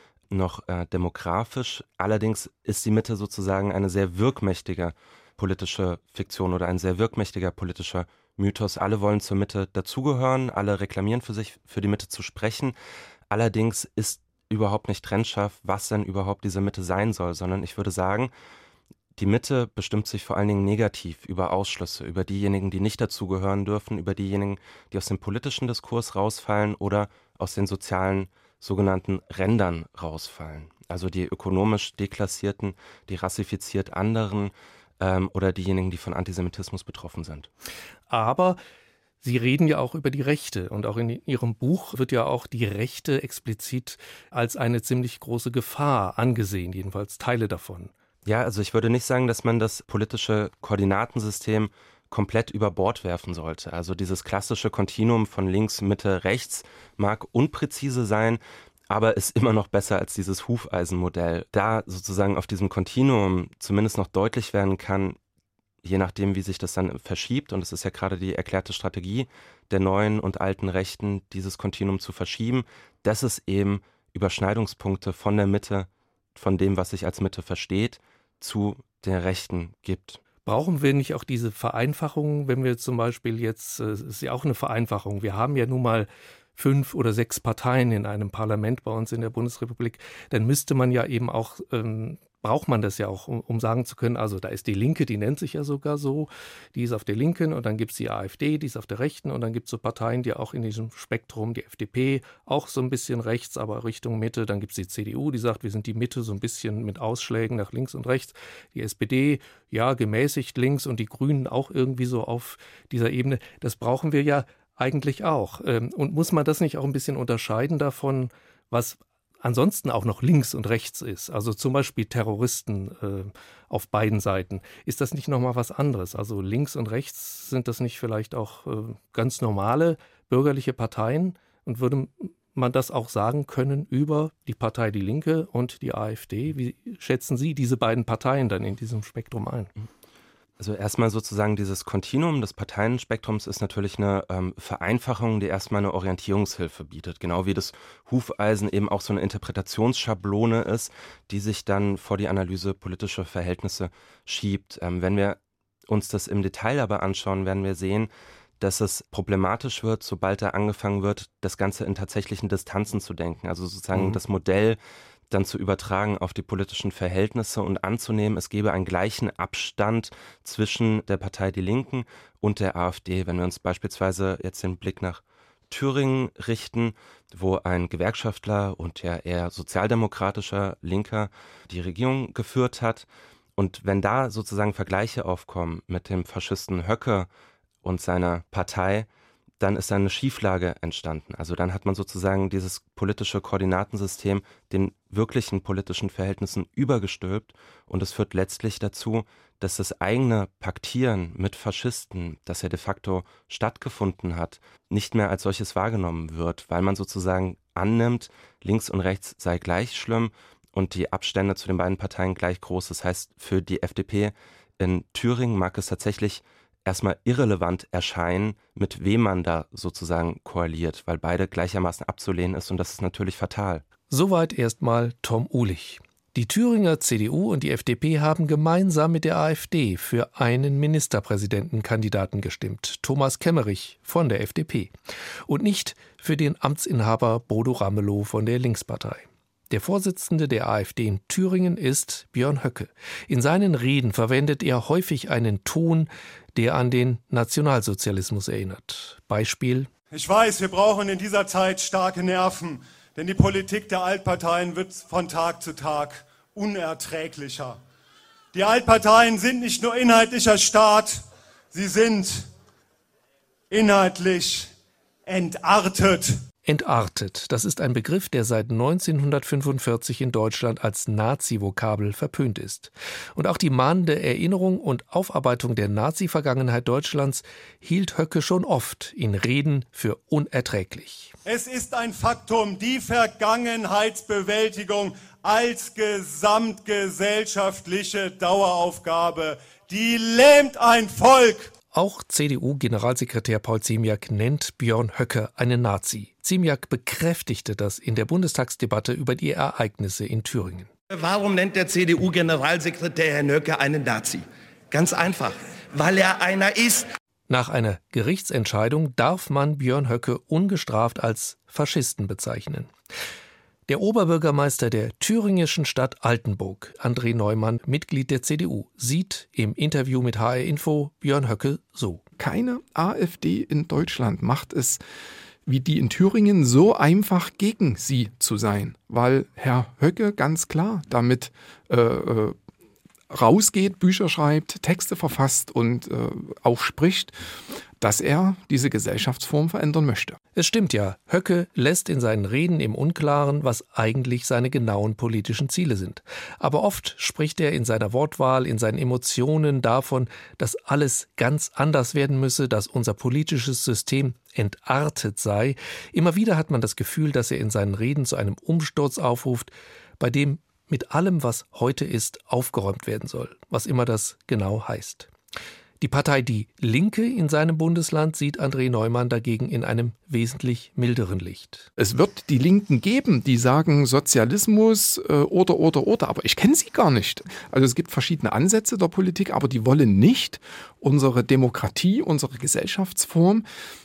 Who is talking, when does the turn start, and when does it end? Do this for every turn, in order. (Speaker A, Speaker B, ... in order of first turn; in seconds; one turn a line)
Speaker A: 0.3-12.7
Speaker A: 13.3-18.3
Speaker A: 19.1-37.5
Speaker B: 38.1-38.6
Speaker B: 39.2-47.9
Speaker A: 48.2-65.2
Speaker A: 65.8-80.2
Speaker B: 80.4-139.7
Speaker A: 140.6-164.8
Speaker A: 165.3-187.3
Speaker A: 187.8-189.1
Speaker A: 189.6-223.8
Speaker B: 224.1-234.9
Speaker B: 235.5-249.9
Speaker C: 250.1-257.8
Speaker C: 258.5-261.2
Speaker C: 261.7-262.5
Speaker C: 263.7-264.7
Speaker C: 265.2-266.4
Speaker B: 266.6-281.3
Speaker C: 281.4-291.7
Speaker B: 291.9-300.9
Speaker D: 301.1-307.1
Speaker B: 307.5-312.9
Speaker B: 313.9-322.2
Speaker E: 322.4-325.0
Speaker E: 325.6-332.6
Speaker E: 333.3-337.4
Speaker E: 338.0-340.4
Speaker B: 340.5-365.3
Speaker B: 366.0-371.9
Speaker E: 372.0-383.6